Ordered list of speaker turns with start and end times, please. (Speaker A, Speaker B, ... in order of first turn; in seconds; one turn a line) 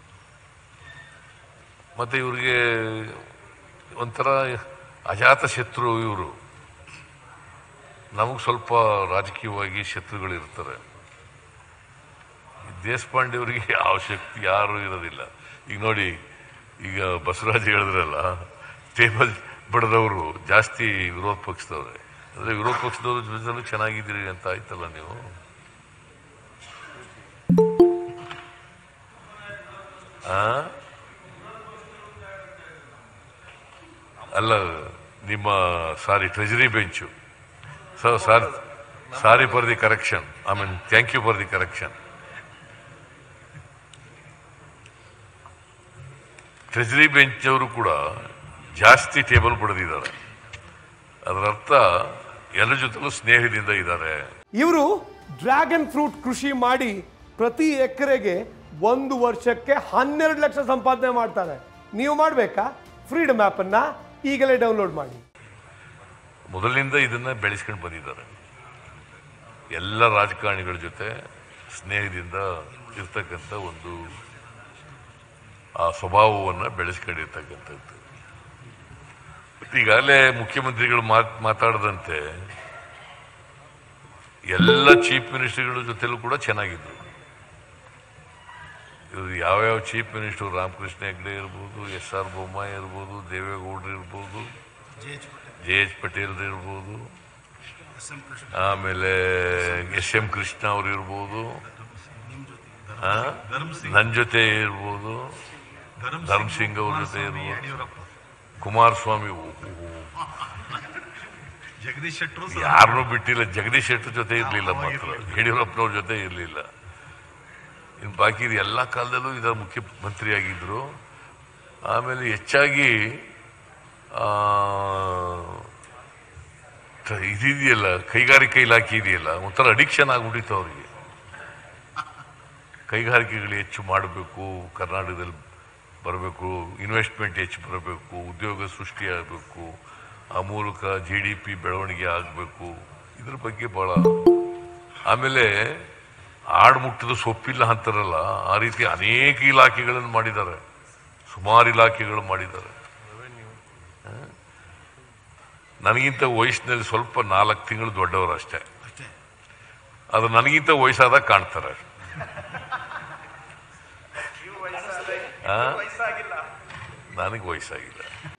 Speaker A: 1.9-3.3
Speaker A: 4.0-6.4
Speaker A: 8.1-10.8
Speaker A: 12.6-16.2
Speaker A: 16.8-25.4
Speaker A: 30.2-30.8
Speaker A: 34.2-37.1
Speaker A: 37.9-42.0
Speaker A: 46.7-50.1
Speaker A: 51.2-54.3
Speaker B: 54.6-65.2
Speaker A: 66.5-68.3
Speaker A: 69.7-74.2
Speaker A: 75.8-78.0
Speaker A: 79.6-82.5
Speaker A: 84.5-87.0
Speaker A: 89.1-94.5
Speaker C: 95.0-95.5
Speaker A: 95.5-97.1
Speaker C: 98.0-98.5
Speaker A: 98.5-101.7
Speaker C: 102.0-104.0
Speaker A: 103.0-105.4
Speaker C: 106.0-108.0
Speaker A: 106.2-107.8
Speaker A: 108.6-110.3
Speaker C: 111.8-112.8
Speaker A: 112.5-116.7
Speaker C: 114.6-115.1
Speaker A: 118.0-121.0
Speaker A: 121.8-123.3
Speaker A: 124.1-125.7
Speaker A: 127.0-130.9
Speaker A: 132.9-135.3
Speaker A: 136.0-139.8
Speaker A: 140.3-144.5
Speaker A: 145.0-145.9
Speaker A: 146.5-150.6
Speaker A: 151.3-152.8
Speaker A: 154.0-154.3
Speaker A: 155.8-158.7
Speaker A: 160.1-161.8
Speaker A: 165.2-166.2
Speaker A: 167.1-168.1